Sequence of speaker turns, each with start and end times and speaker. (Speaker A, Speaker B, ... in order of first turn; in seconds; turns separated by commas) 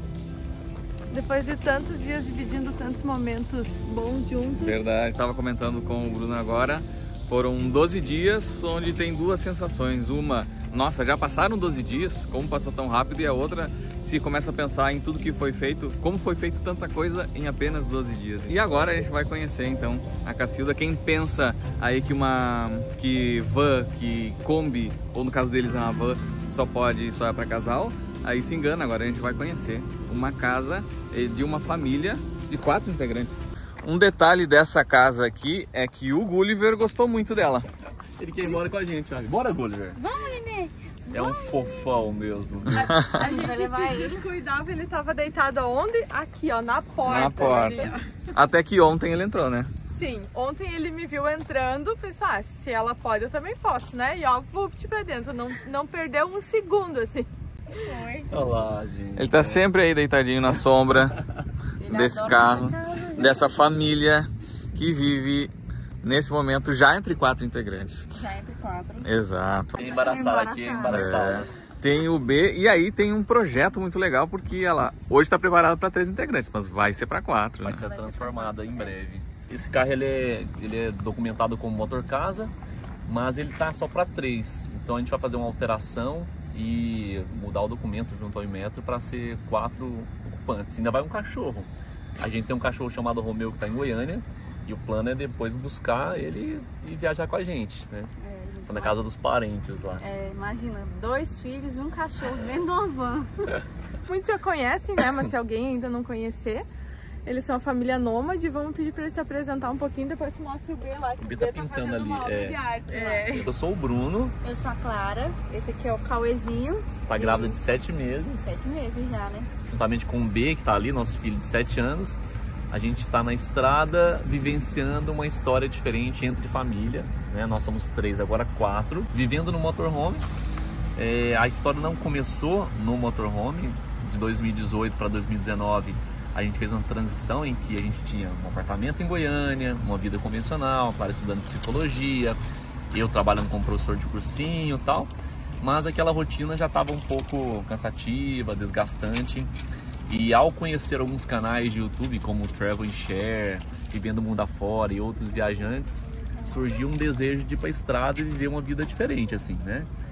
Speaker A: 1.1-4.8, Speaker B: 4.6-37.7, Speaker C: 38.2-40.0, Speaker D: 40.0-41.9, Speaker C: 41.1-43.0, Speaker D: 42.8-44.3, Speaker B: 42.8-43.1, Speaker A: 43.1-48.1, Speaker B: 47.0-49.7, Speaker D: 47.7-47.9, Speaker A: 49.9-57.3, Speaker D: 57.7-58.4, Speaker C: 58.3-59.6, Speaker B: 59.2-61.2, Speaker D: 61.8-63.6, Speaker B: 61.8-68.1, Speaker D: 68.1-69.2, Speaker B: 69.0-69.9, Speaker C: 69.7-71.5, Speaker D: 69.8-71.1, Speaker B: 70.8-77.9, Speaker C: 77.6-82.5, Speaker D: 77.8-78.9, Speaker C: 83.0-98.1, Speaker D: 98.2-99.0, Speaker C: 98.7-100.0, Speaker D: 100.0-103.6, Speaker A: 104.1-106.7, Speaker A: 107.2-113.3, Speaker C: 111.2-112.6, Speaker D: 112.9-113.5, Speaker C: 113.3-114.3, Speaker D: 114.4-117.6, Speaker C: 117.1-118.6, Speaker D: 118.4-119.5, Speaker C: 119.7-122.2, Speaker C: 122.7-130.3, Speaker C: 131.0-142.4, Speaker C: 142.9-149.5, Speaker C: 150.1-159.9